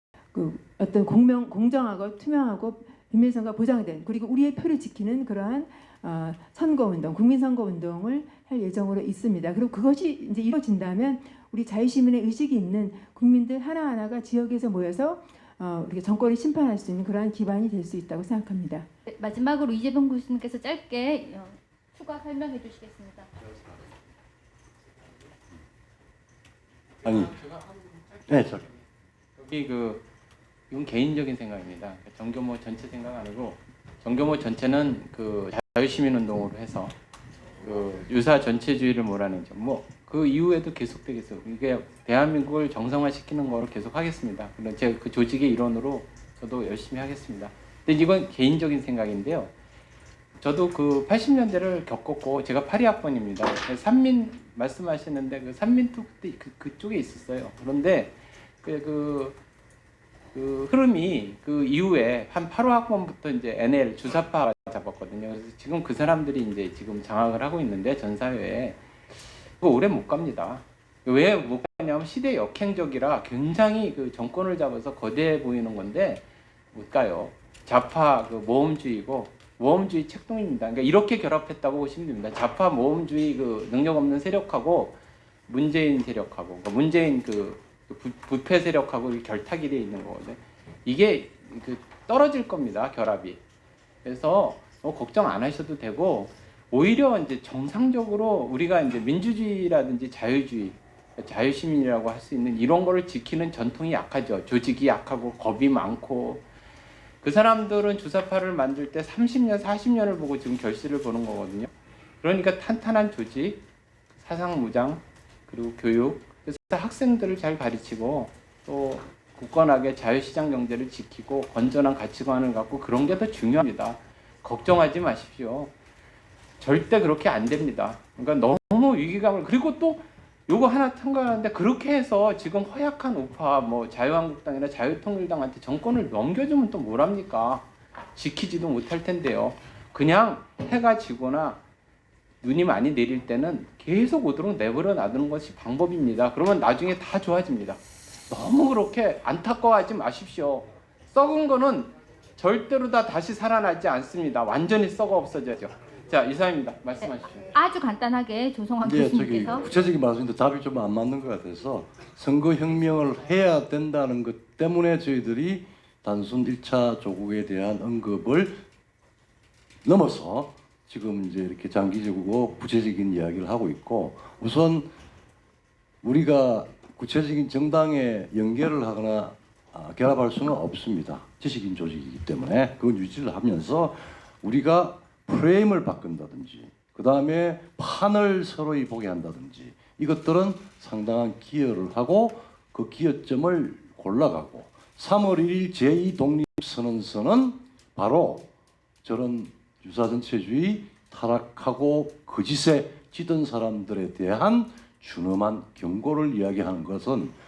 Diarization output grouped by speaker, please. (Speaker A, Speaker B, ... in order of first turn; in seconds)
Speaker A: 0.3-18.9
Speaker B: 19.1-23.3, 157.5-159.7
Speaker C: 27.0-27.4, 28.3-28.7, 158.8-168.6, 169.8-174.9, 176.0-183.9, 184.4-198.4, 199.1-207.3
Speaker D: 27.5-27.8, 29.4-30.0, 30.7-37.0, 37.6-49.5, 50.4-59.4, 60.3-68.8, 69.6-93.4, 94.0-106.4, 107.2-113.6, 114.2-125.7, 126.6-141.6, 142.4-157.5